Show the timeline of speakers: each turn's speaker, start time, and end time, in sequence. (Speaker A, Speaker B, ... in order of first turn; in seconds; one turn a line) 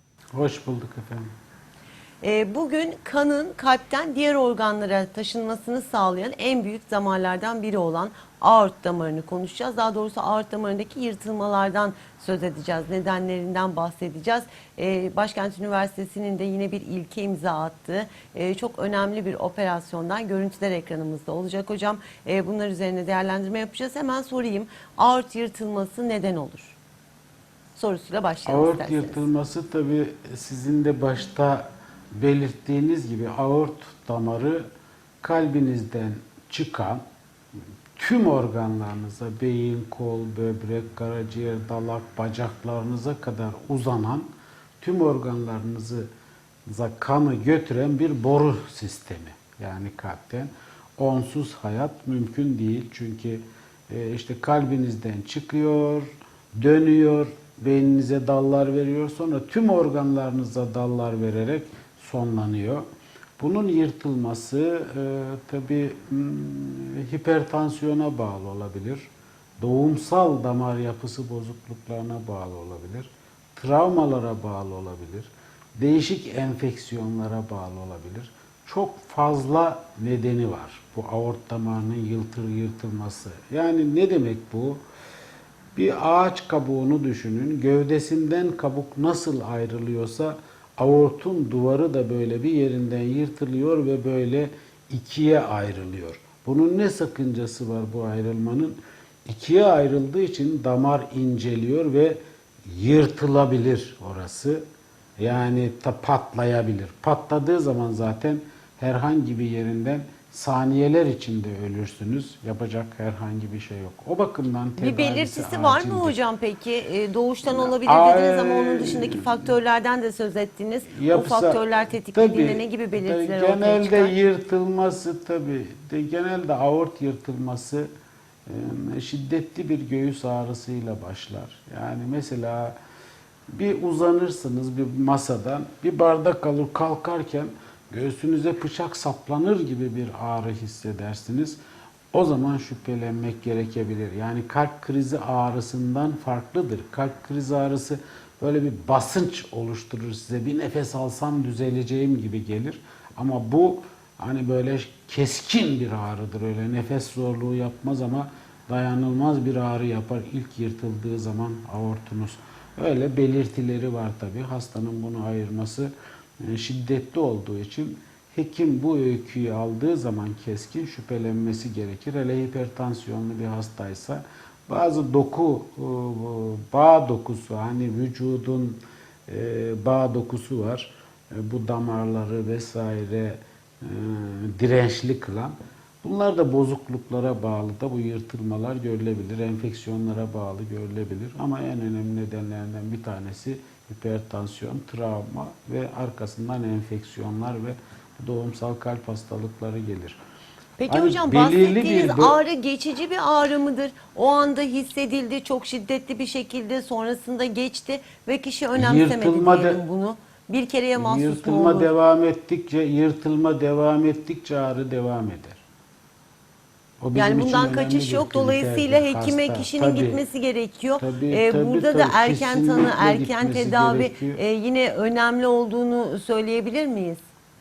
Speaker A: 0.3-1.3
Speaker B: 2.2-26.8
Speaker B: 27.8-29.3
Speaker A: 28.5-34.7
Speaker A: 35.2-37.0
Speaker A: 38.0-46.1
Speaker A: 46.7-62.9
Speaker A: 63.4-84.8
Speaker A: 85.8-104.6
Speaker A: 105.2-116.2
Speaker B: 114.8-124.2
Speaker A: 117.5-119.5
Speaker A: 120.9-121.6
Speaker A: 122.1-127.9
Speaker A: 128.5-132.8
Speaker A: 133.5-141.6
Speaker A: 142.1-200.2
Speaker B: 200.8-211.9
Speaker A: 200.9-202.4
Speaker A: 208.8-209.8
Speaker A: 211.0-215.6
Speaker A: 217.0-220.2
Speaker B: 217.1-227.2
Speaker A: 221.0-224.4